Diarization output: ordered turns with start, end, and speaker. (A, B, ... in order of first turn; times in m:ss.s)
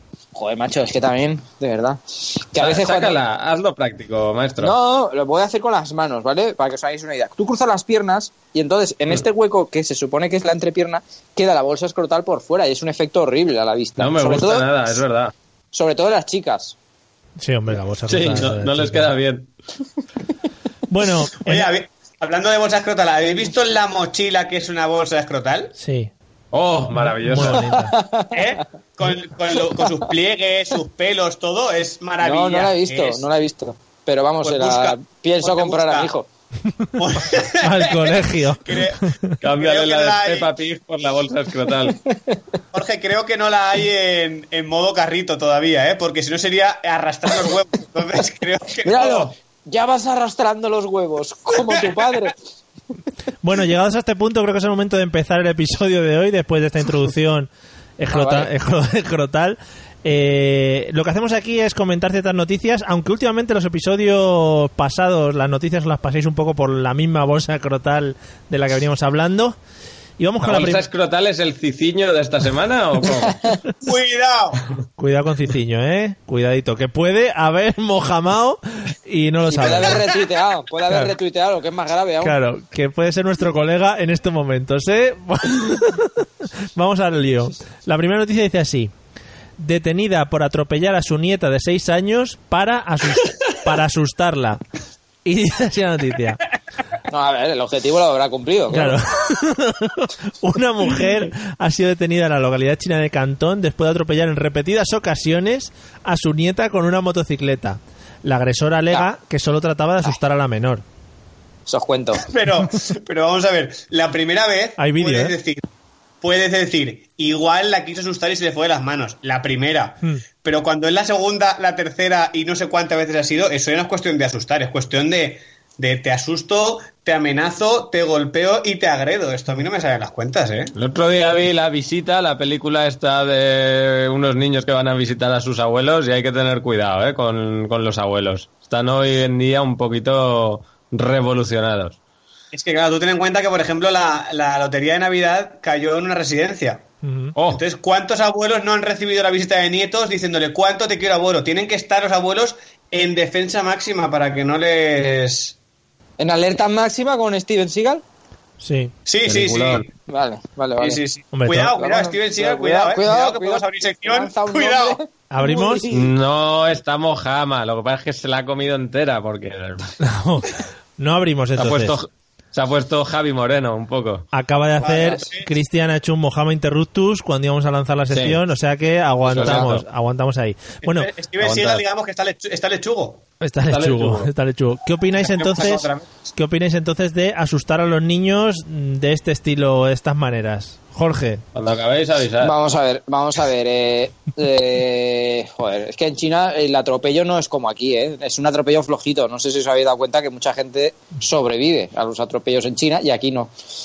0:00.3-0:03.2 A
0:02.6-0:04.7 B
0:04.6-0:14.7 A
0:14.0-0:15.3 B
0:15.7-0:16.7 A
0:17.4-0:19.1 C
0:18.1-0:19.5 B
0:20.9-0:21.7 C
0:21.4-0:25.7 D
0:25.8-0:26.1 C
0:26.5-0:27.7 B
0:26.9-0:28.0 C
0:27.4-0:28.6 A
0:28.3-0:33.3 D
0:29.6-0:30.0 A
0:32.2-0:36.3 A
0:34.4-0:36.1 D
0:37.0-0:40.5 D
0:37.5-0:39.3 C
0:39.4-0:42.0 B
0:42.0-0:42.4 A
0:42.7-0:49.3 D
0:48.8-0:52.4 A
0:51.6-0:52.2 D
0:53.4-1:09.6 C
0:58.1-0:58.5 A
1:10.2-1:10.9 C
1:10.4-1:13.6 B
1:13.2-1:13.6 A
1:13.8-1:14.6 D
1:15.0-1:20.0 C
1:19.4-1:22.4 A
1:22.2-1:28.9 C
1:29.6-1:34.6 C
1:35.2-1:36.4 C
1:37.1-1:39.0 A
1:38.7-1:50.8 C
1:51.7-1:52.3 A
1:52.2-1:55.6 D
1:54.8-1:55.3 C
1:56.2-2:10.7 D
2:10.7-2:22.0 B
2:22.5-2:26.8 D
2:27.0-2:27.3 C
2:27.4-2:27.6 B
2:27.5-2:35.6 D
2:36.2-2:38.0 A
2:38.6-2:38.9 C
2:39.0-2:39.9 D
2:39.2-2:39.8 B
2:40.1-2:41.0 A
2:40.8-2:45.0 D
2:41.3-2:41.8 C
2:41.7-2:46.1 A
2:45.3-2:45.8 C
2:45.9-2:50.0 B
2:50.0-2:52.0 C
2:51.6-2:54.2 B
2:54.3-3:01.1 C
2:54.8-2:55.5 D
2:58.1-2:58.4 B
2:59.2-2:59.8 B
2:59.3-2:59.6 A
3:00.8-3:03.2 D
3:01.4-3:01.8 B
3:03.4-3:11.4 C
3:03.7-3:04.3 B
3:05.2-3:06.1 D
3:11.5-3:12.5 B
3:12.4-3:23.5 A